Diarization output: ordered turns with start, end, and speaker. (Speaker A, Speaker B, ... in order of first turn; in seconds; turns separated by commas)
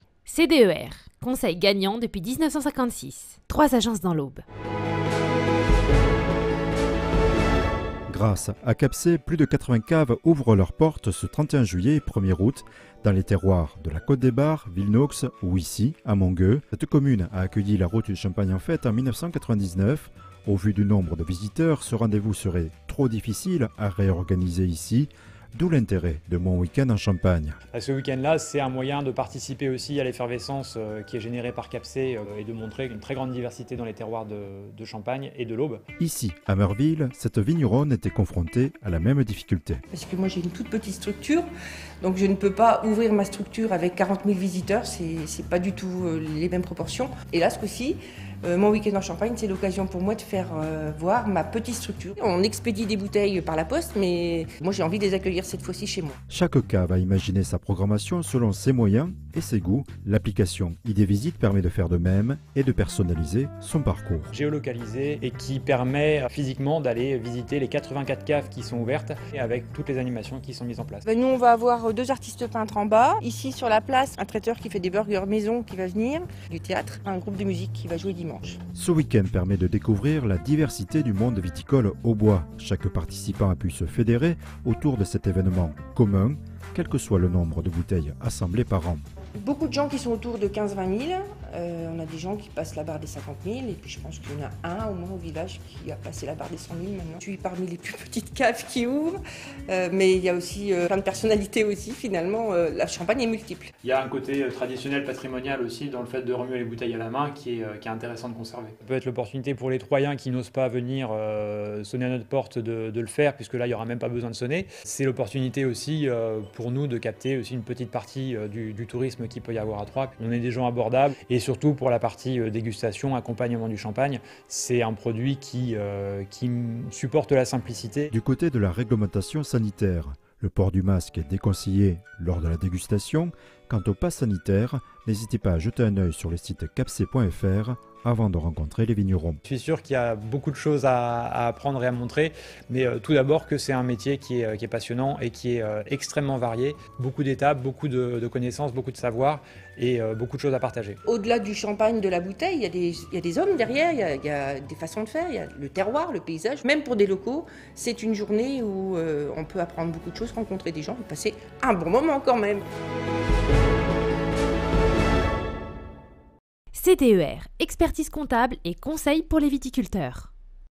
Speaker A: 0.3-4.4, Speaker B: 8.1-27.6, Speaker C: 27.7-35.8, Speaker B: 36.0-39.8, Speaker D: 39.9-41.5, Speaker D: 42.0-56.2, Speaker B: 56.3-64.3, Speaker C: 64.3-71.0, Speaker D: 71.0-78.6, Speaker B: 78.7-89.0, Speaker D: 89.3-103.7, Speaker C: 103.8-128.1, Speaker B: 128.1-139.4, Speaker C: 139.4-151.0, Speaker D: 151.0-162.7, Speaker A: 166.7-170.3